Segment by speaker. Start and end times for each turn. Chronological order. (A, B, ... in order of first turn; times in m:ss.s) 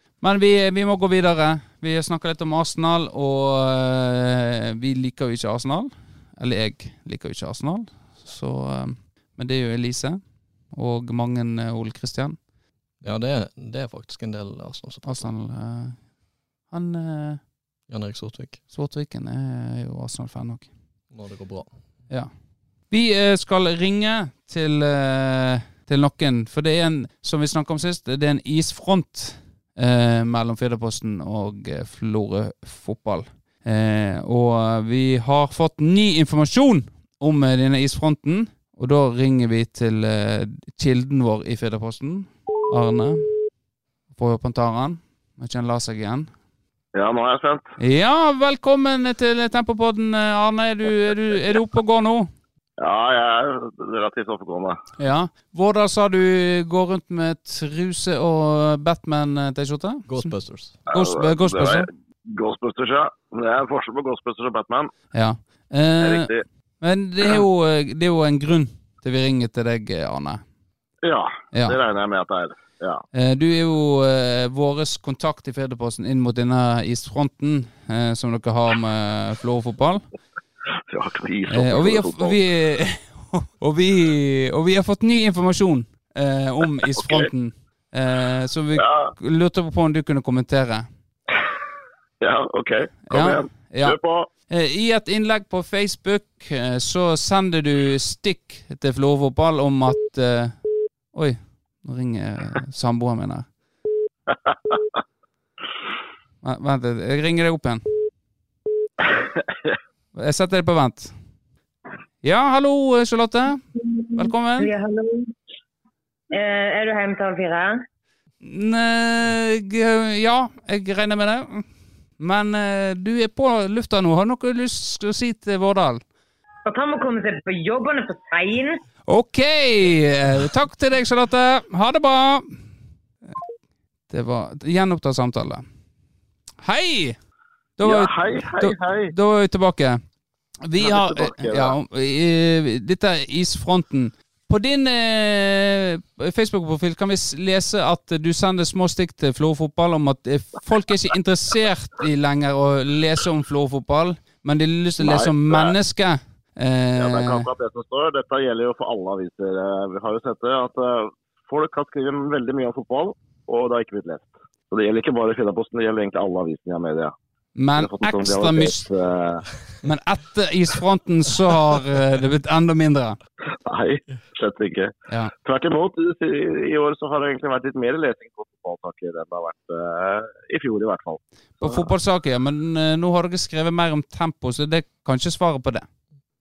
0:00.2-0:10.2 A
0:10.7-0:12.4 A
0:13.0-0:15.3 B
0:15.0-0:16.0 A
0:16.7-0:17.4 A
0:17.9-0:18.6 B
0:18.7-0:20.7 A
0:21.1-0:21.7 B
0:22.9-0:43.3 A
0:44.1-0:46.3 A
0:46.9-0:47.7 C
0:47.8-0:52.3 A
0:52.8-0:54.8 C
0:55.0-1:01.9 A
1:00.1-1:00.7 B
1:00.9-1:04.9 C
1:05.1-1:10.4 A
1:06.0-1:06.4 C
1:11.0-1:13.0 C
1:11.5-1:11.8 A
1:13.1-1:20.0 A
1:20.9-1:22.4 C
1:21.5-1:30.9 A
1:28.8-1:29.1 C
1:32.2-1:34.3 C
1:33.1-1:34.0 A
1:34.5-1:43.5 A
1:44.3-1:44.7 C
1:46.4-1:47.8 A
1:49.2-1:49.7 C
1:50.1-1:51.1 A
1:52.2-1:54.7 A
1:54.0-1:55.3 D
1:56.3-1:57.8 D
1:58.4-2:06.0 A
2:06.6-2:08.8 D
2:09.1-2:12.6 A
2:14.1-2:15.6 A
2:16.6-2:17.2 A
2:17.8-2:20.0 A
2:17.8-2:19.1 C
2:20.6-2:37.5 A
2:20.8-2:21.7 C
2:35.0-2:35.7 C
2:37.0-2:47.1 C
2:47.6-2:48.9 A
2:47.8-2:49.4 C
2:49.8-2:53.2 A
2:53.6-3:01.9 C
3:01.6-3:05.8 A